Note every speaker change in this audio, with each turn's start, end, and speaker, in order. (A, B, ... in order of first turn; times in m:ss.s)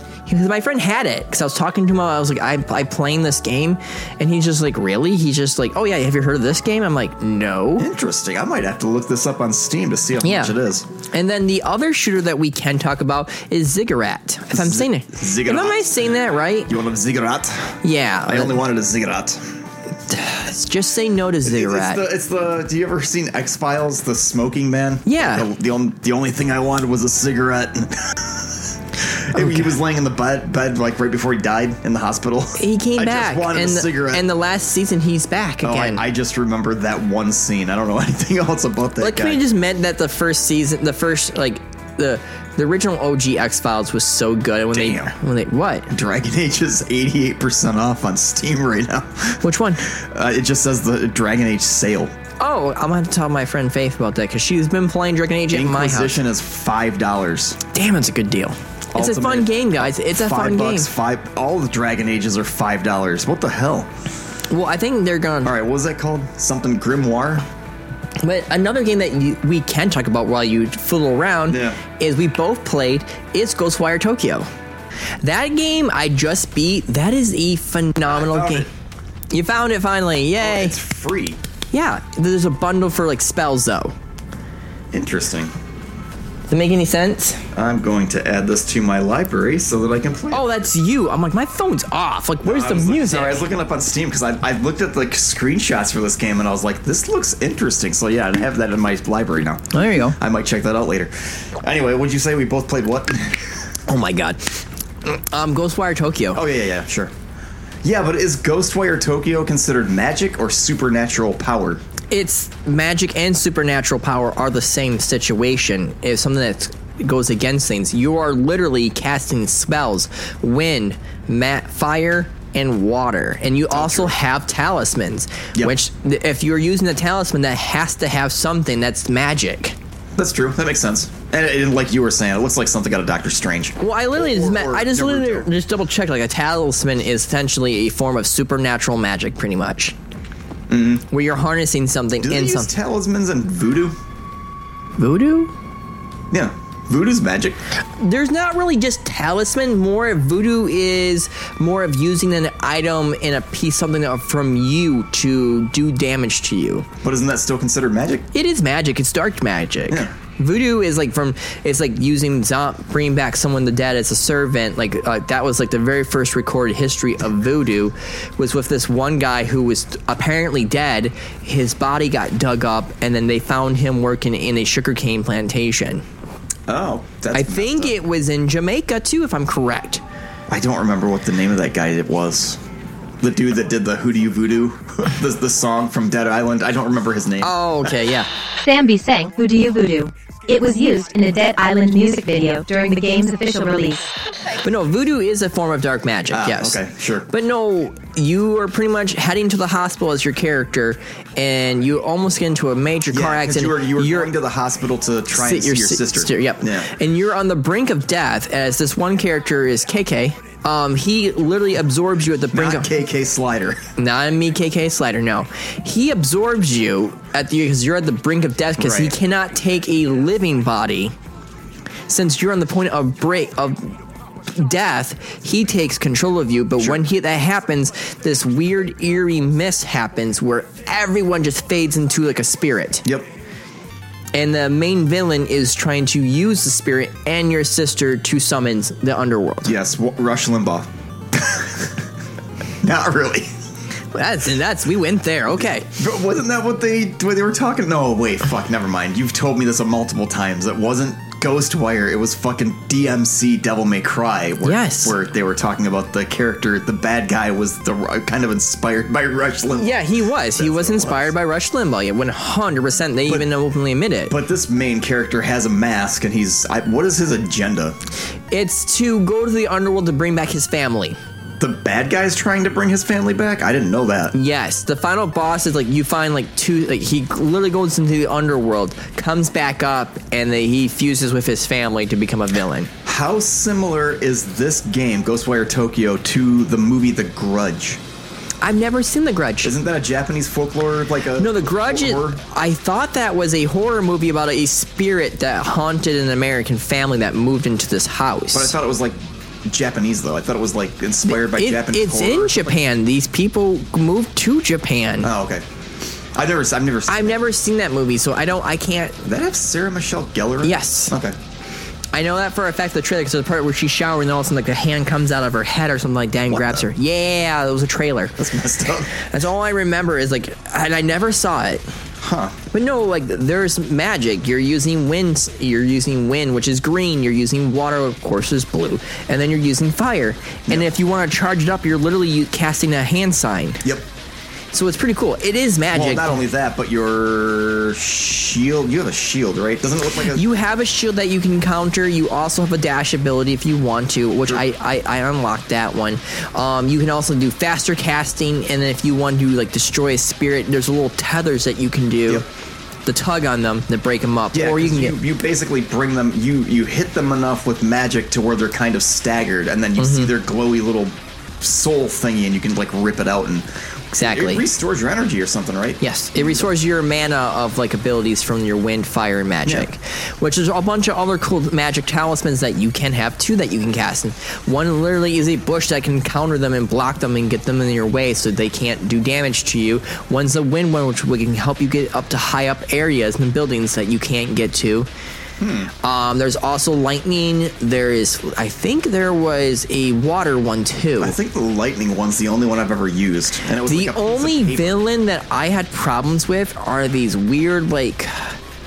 0:00.3-0:07.9 A
0:07.8-0:10.8 B
0:10.2-0:10.5 A
0:11.1-0:16.7 A
0:14.5-0:19.4 B
0:17.8-0:18.6 A
0:20.1-0:22.0 A
0:21.4-0:28.5 B
0:25.0-0:25.5 A
0:29.1-0:34.3 B
0:29.3-0:29.7 A
0:32.6-0:36.0 A
0:35.6-0:39.4 B
0:39.0-0:45.9 A
0:44.7-0:45.1 B
0:45.9-0:52.1 B
0:49.4-0:49.8 A
0:52.4-0:56.2 A
0:55.5-0:57.6 B
0:57.7-1:00.9 A
0:58.9-1:03.9 B
1:04.5-1:05.5 A
1:05.4-1:07.4 B
1:08.2-1:14.5 A
1:11.5-1:11.8 B
1:15.2-1:18.7 A
1:18.0-1:18.7 B
1:19.3-1:20.8 A
1:20.4-1:21.4 B
1:21.7-1:23.9 A
1:24.9-1:25.5 B
1:26.5-1:27.4 A
1:27.5-1:30.6 B
1:30.3-1:33.4 A
1:32.4-1:43.5 B
1:39.7-1:40.2 A
1:43.9-1:46.4 A
1:46.3-1:47.1 B
1:47.8-1:51.8 B
1:52.1-2:09.8 A
2:03.7-2:04.2 B
2:10.2-2:15.5 B
2:13.8-2:19.9 A
2:20.7-2:21.0 B
2:21.1-2:22.7 A
2:22.2-2:24.0 B
2:25.0-2:25.5 A
2:26.3-2:27.6 B
2:28.0-2:36.9 A
2:37.0-2:38.2 B
2:38.3-2:56.0 A
2:56.7-2:57.9 B
2:57.3-3:00.0 A
3:00.5-3:02.6 B
3:03.2-3:07.9 B
3:07.4-3:08.3 A
3:08.6-3:14.0 C
3:14.6-3:24.3 A
3:16.3-3:17.3 B
3:23.1-3:26.9 B
3:25.3-3:32.9 A
3:32.5-3:33.9 B
3:34.0-3:41.1 A
3:38.8-3:39.2 B
3:42.1-3:43.9 A
3:44.5-3:53.0 A
3:54.3-3:59.7 A
3:59.6-4:02.0 B
4:02.8-4:03.5 B
4:04.1-4:05.9 A
4:06.0-4:21.3 B
4:14.6-4:15.1 A
4:19.7-4:24.3 A
4:24.3-4:28.0 B
4:28.5-4:31.2 A
4:31.6-4:34.3 B
4:34.3-4:42.9 A
4:43.0-4:48.0 B
4:48.6-4:49.7 A
4:49.6-4:52.4 B
4:51.4-4:58.7 A
4:58.5-5:02.7 B
5:01.2-5:05.3 A
5:05.2-5:05.6 B
5:06.3-5:07.4 B
5:07.1-5:09.2 A
5:09.2-5:11.4 B
5:10.6-5:11.1 A
5:12.1-5:18.4 A
5:16.5-5:16.9 B
5:18.4-5:19.2 B
5:19.2-5:21.8 A
5:22.2-5:22.6 B
5:22.7-5:33.8 A
5:34.7-5:36.4 A
5:35.9-5:40.4 B
5:40.3-5:52.4 A
5:53.0-5:55.2 A
5:54.5-6:03.7 B
6:00.0-6:00.3 A
6:04.1-6:04.6 A
6:04.2-6:06.7 B
6:06.0-6:25.1 A
6:25.6-6:25.9 B
6:26.0-6:31.4 A
6:31.2-6:35.0 B
6:33.8-6:38.6 A